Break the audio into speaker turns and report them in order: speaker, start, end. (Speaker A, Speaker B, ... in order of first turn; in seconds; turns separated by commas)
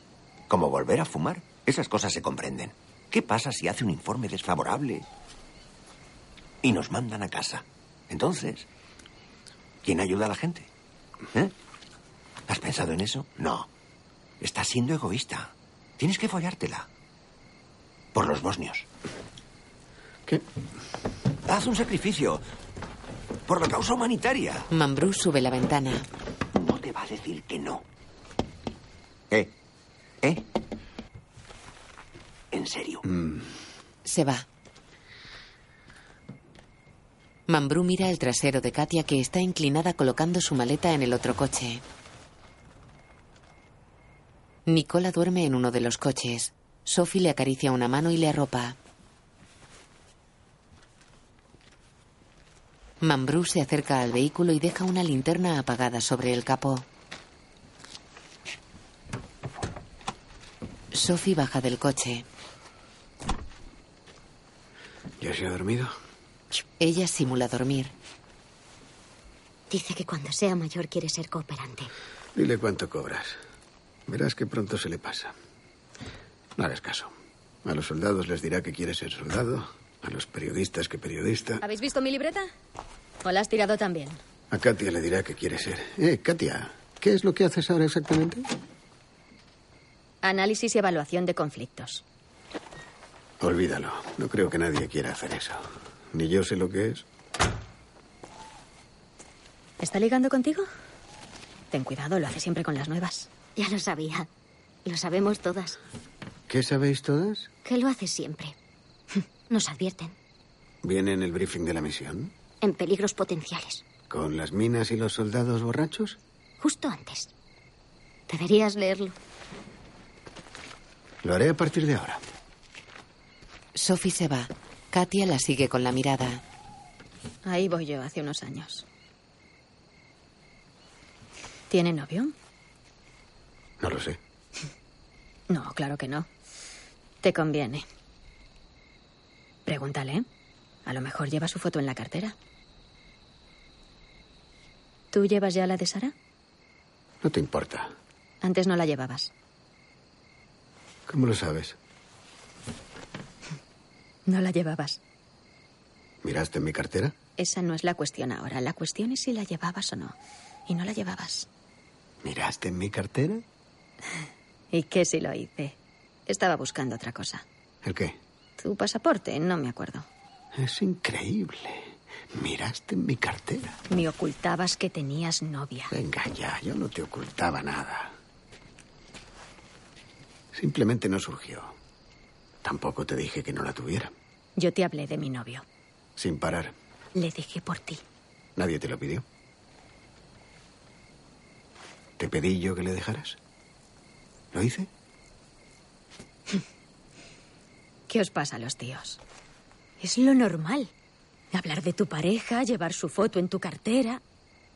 Speaker A: 0.5-5.0, Speaker A: 6.6-8.7, Speaker A: 9.8-10.7, Speaker A: 12.5-13.7, Speaker A: 14.4-16.9, Speaker A: 18.1-18.9, Speaker A: 21.5-22.4, Speaker A: 23.5-24.7, Speaker B: 24.7-26.1, Speaker A: 26.5-27.8, Speaker A: 32.5-33.0, Speaker C: 33.0-33.4, Speaker B: 34.0-34.5, Speaker B: 37.5-41.8, Speaker B: 44.6-48.8, Speaker B: 53.0-56.9, Speaker B: 60.9-62.2, Speaker C: 65.2-65.9, Speaker B: 66.8-67.9, Speaker D: 69.7-71.9, Speaker C: 72.3-73.3, Speaker C: 74.1-75.3, Speaker C: 76.6-77.1, Speaker C: 77.6-81.6, Speaker E: 81.6-82.5, Speaker E: 83.2-84.2, Speaker C: 84.5-88.5, Speaker E: 90.2-92.0, Speaker C: 93.4-97.0, Speaker E: 99.8-100.7, Speaker E: 101.7-103.3, Speaker D: 103.5-104.3, Speaker D: 104.8-105.8, Speaker C: 106.5-107.5, Speaker D: 107.6-108.5, Speaker D: 109.5-110.1, Speaker C: 110.8-112.3, Speaker D: 112.6-113.8, Speaker C: 114.1-116.2, Speaker D: 116.6-117.3, Speaker D: 118.3-119.1, Speaker C: 121.2-122.2, Speaker B: 123.7-126.4, Speaker E: 127.4-128.8, Speaker E: 131.7-132.3, Speaker C: 133.8-134.2, Speaker E: 135.5-136.3, Speaker E: 137.2-137.8, Speaker E: 139.7-140.2, Speaker E: 140.8-142.3, Speaker E: 145.1-146.1, Speaker C: 147.2-147.9, Speaker E: 148.4-149.3, Speaker C: 151.1-151.8, Speaker E: 154.3-155.0, Speaker C: 156.2-157.1, Speaker E: 157.4-160.2, Speaker E: 160.7-161.5, Speaker C: 162.2-163.4, Speaker E: 164.7-165.8, Speaker E: 166.3-167.4, Speaker C: 167.8-168.2, Speaker E: 168.6-170.1, Speaker C: 170.5-173.8, Speaker E: 173.9-175.9, Speaker C: 175.9-178.1, Speaker C: 180.5-181.8, Speaker C: 182.6-184.1, Speaker E: 184.6-185.6, Speaker C: 186.2-186.7, Speaker E: 187.2-188.0, Speaker C: 188.6-189.2, Speaker C: 192.2-193.4, Speaker C: 194.5-194.9, Speaker E: 198.1-199.2, Speaker E: 200.0-200.9, Speaker E: 201.5-204.2